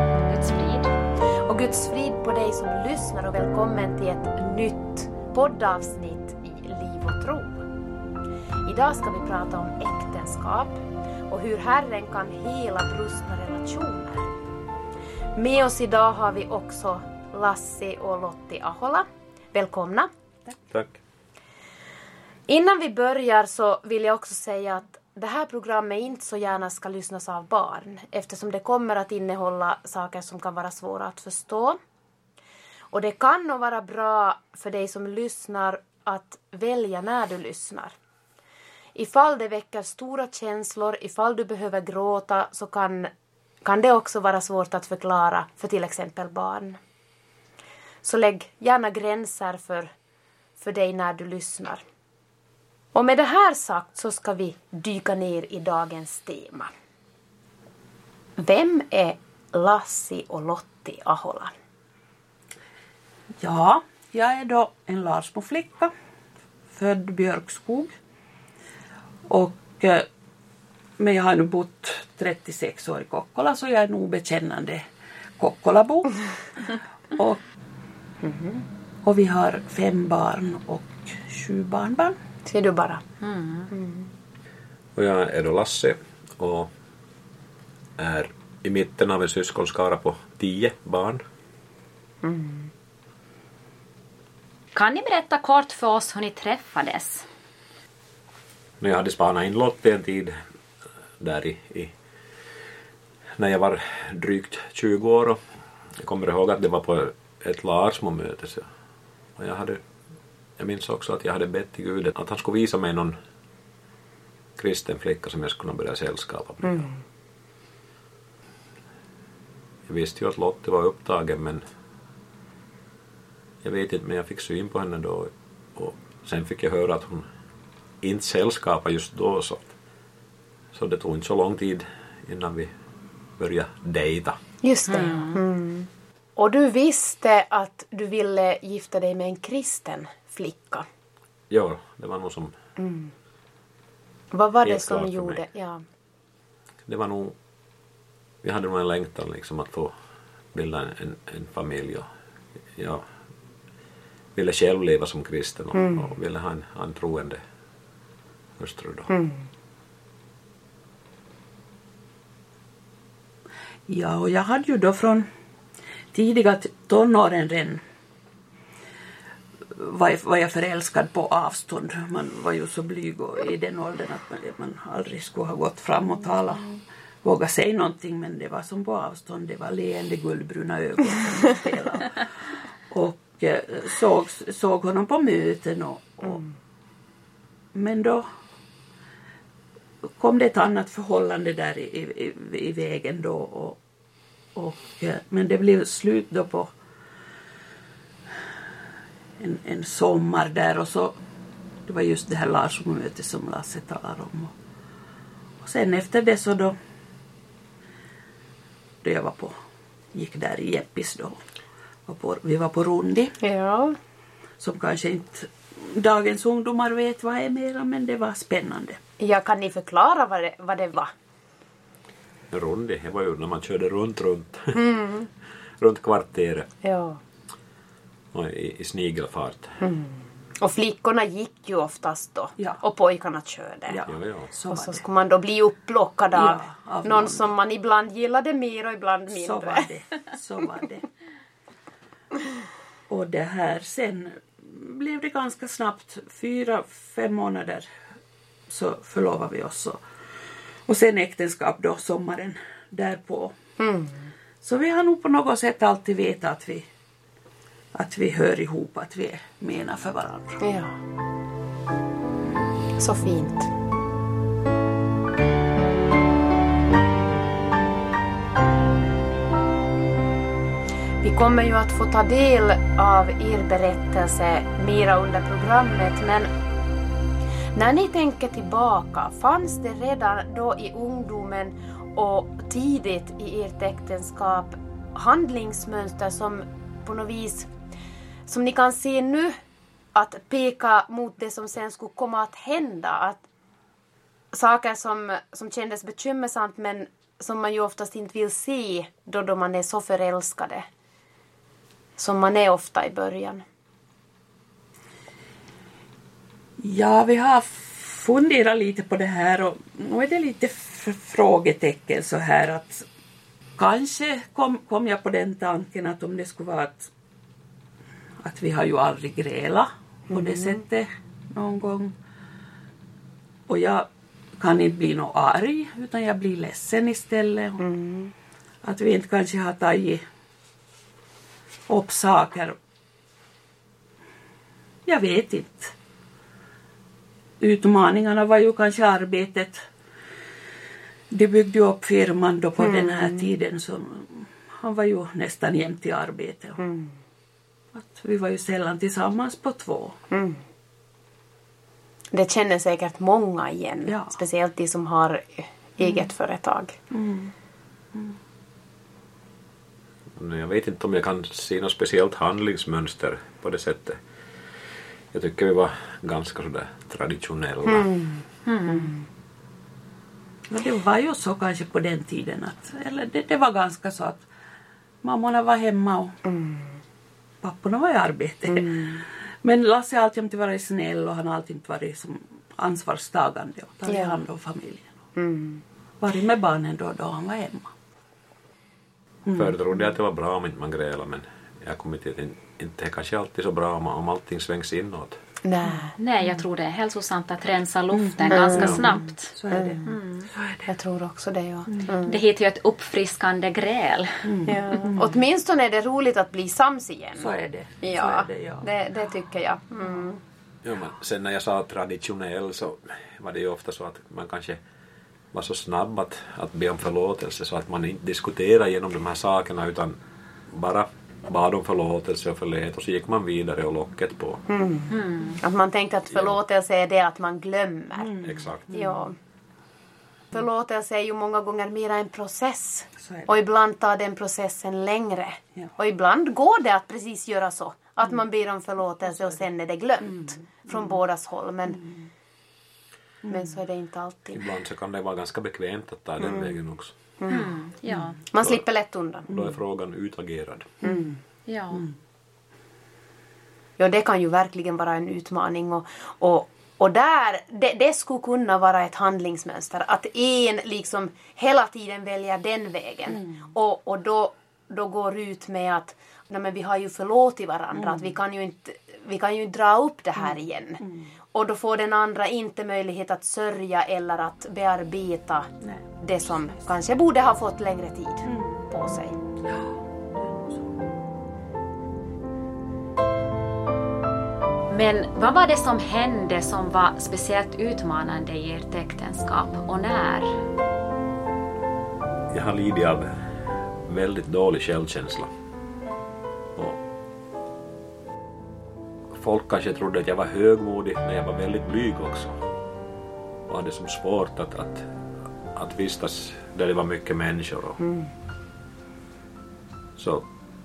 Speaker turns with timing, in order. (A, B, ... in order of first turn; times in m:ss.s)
0:00.2-0:00.9 A
0:01.4-0:07.6 B
0:08.6-0:14.3 B
0:15.4-0:20.1 B
0:20.7-0:21.0 C
0:22.5-0:31.8 B
0:32.9-0:37.9 B
0:38.9-0:43.1 B
0:43.6-0:46.8 B
0:48.0-0:49.9 B
0:50.6-0:51.8 B
0:52.9-0:56.7 B
0:58.4-1:01.5 B
1:03.4-1:05.9 D
1:06.7-1:07.9 D
1:09.3-1:10.1 D
1:11.0-1:14.8 D
1:15.4-1:17.4 D
1:18.2-1:18.6 B
1:19.0-1:22.2 D
1:22.4-1:23.0 B
1:23.2-1:23.7 A
1:23.7-1:24.1 B
1:24.9-1:26.7 C
1:28.0-1:31.2 C
1:32.2-1:32.7 B
1:34.7-1:37.2 A
1:38.8-1:40.4 C
1:41.2-1:41.9 C
1:43.4-1:45.4 C
1:46.0-1:48.7 C
1:49.4-1:49.8 C
1:50.6-1:53.2 C
1:54.6-1:56.9 C
1:56.6-1:57.0 B
1:59.9-2:01.6 C
2:03.6-2:07.2 C
2:08.0-2:09.7 C
2:10.7-2:12.7 C
2:13.4-2:14.4 C
2:14.6-2:20.9 B
2:14.9-2:15.4 A
2:21.5-2:22.5 C
2:22.8-2:23.1 B
2:24.3-2:25.8 B
2:24.6-2:25.4 C
2:26.9-2:27.3 C
2:28.4-2:29.9 C
2:30.5-2:32.1 C
2:32.8-2:33.0 C
2:34.3-2:37.4 C
2:35.7-2:36.1 B
2:38.6-2:39.1 C
2:39.1-2:39.5 B
2:43.9-2:45.3 D
2:46.1-2:47.8 D
2:49.7-3:06.4 D
3:07.7-3:08.2 D
3:10.0-3:13.8 D
3:14.5-3:16.7 D
3:19.4-3:21.2 D
3:21.8-3:24.5 D
3:25.6-3:26.7 D
3:29.0-3:29.5 D
3:30.1-3:31.4 D
3:32.1-3:33.4 D
3:33.4-3:34.0 B
3:34.6-3:39.0 D
3:39.2-3:41.1 B
3:42.5-3:44.9 C
3:44.7-3:45.3 B
3:45.8-3:46.7 C
3:46.8-3:47.2 B
3:48.3-3:49.8 C
3:49.8-3:54.0 B
3:53.9-3:55.0 D
3:54.1-3:54.5 C
3:54.7-3:59.9 B
3:56.3-3:57.5 D
3:59.3-4:01.0 D
4:03.1-4:07.9 D
4:08.7-4:10.0 D
4:10.9-4:13.5 D
4:13.8-4:14.3 B
4:14.6-4:16.9 D
4:17.9-4:20.6 D
4:20.6-4:21.0 B
4:23.0-4:23.7 B
4:31.2-4:36.5 B
4:37.7-4:47.7 B
4:48.4-4:49.6 B
4:50.1-4:53.4 B
4:54.5-5:00.9 B
5:02.2-5:03.6 B
5:06.8-5:13.0 D
5:13.8-5:17.1 D
5:18.4-5:22.1 D
5:20.3-5:20.8 B
5:23.7-5:27.8 D
5:27.8-5:28.3 B
5:28.8-5:30.2 D
5:31.9-5:32.8 D
5:35.0-5:35.9 D
5:37.6-5:39.9 D
5:41.3-5:46.8 D
5:42.8-5:43.4 B
5:46.8-5:47.1 B
5:47.9-5:50.2 D
5:50.3-5:50.6 B
5:52.3-5:57.0 B
5:54.0-5:54.3 D
5:57.1-5:57.5 D
6:00.4-6:04.2 C
6:05.3-6:08.1 C
6:07.8-6:09.2 B
6:08.6-6:09.1 A
6:10.7-6:14.4 D
6:15.2-6:16.4 D
6:16.4-6:17.0 B
6:17.6-6:25.1 D
6:18.7-6:19.2 B
6:24.0-6:24.4 B
6:25.4-6:25.8 B
6:26.2-6:27.9 D
6:29.4-6:29.8 D
6:29.5-6:35.4 C
6:35.6-6:36.2 B
6:36.2-6:39.5 A
6:38.1-6:40.8 D
6:38.5-6:39.2 B
6:39.7-6:40.1 B
6:40.0-6:40.5 A
6:40.8-6:42.4 B
6:42.2-6:44.6 A
6:44.4-6:45.4 D
6:44.6-6:50.4 B
6:47.4-6:48.9 D
6:50.8-6:54.8 C
6:55.5-7:00.2 C
7:00.7-7:04.6 C
7:04.7-7:08.3 B
7:05.1-7:05.6 A
7:08.2-7:09.2 D
7:08.4-7:08.9 C
7:08.9-7:09.4 B
7:10.5-7:22.0 B
7:13.2-7:13.5 D
7:23.5-7:24.6 B
7:24.5-7:27.1 C
7:27.4-7:27.7 B
7:27.5-7:28.4 A
7:28.5-7:29.5 B
7:29.5-7:31.0 C
7:31.0-7:31.4 B
7:31.7-7:32.0 A
7:34.0-7:51.0 B
7:48.0-7:48.2 D
7:51.0-7:51.3 D
7:51.5-7:59.4 B
7:55.8-7:56.8 D
7:58.4-7:58.8 D
7:59.6-8:01.0 D
8:04.9-8:10.6 A
8:12.5-8:13.4 C
8:14.0-8:15.5 C
8:19.3-8:22.6 C
8:23.7-8:25.1 C
8:25.7-8:28.0 C
8:28.0-8:28.3 B
8:30.2-8:30.4 C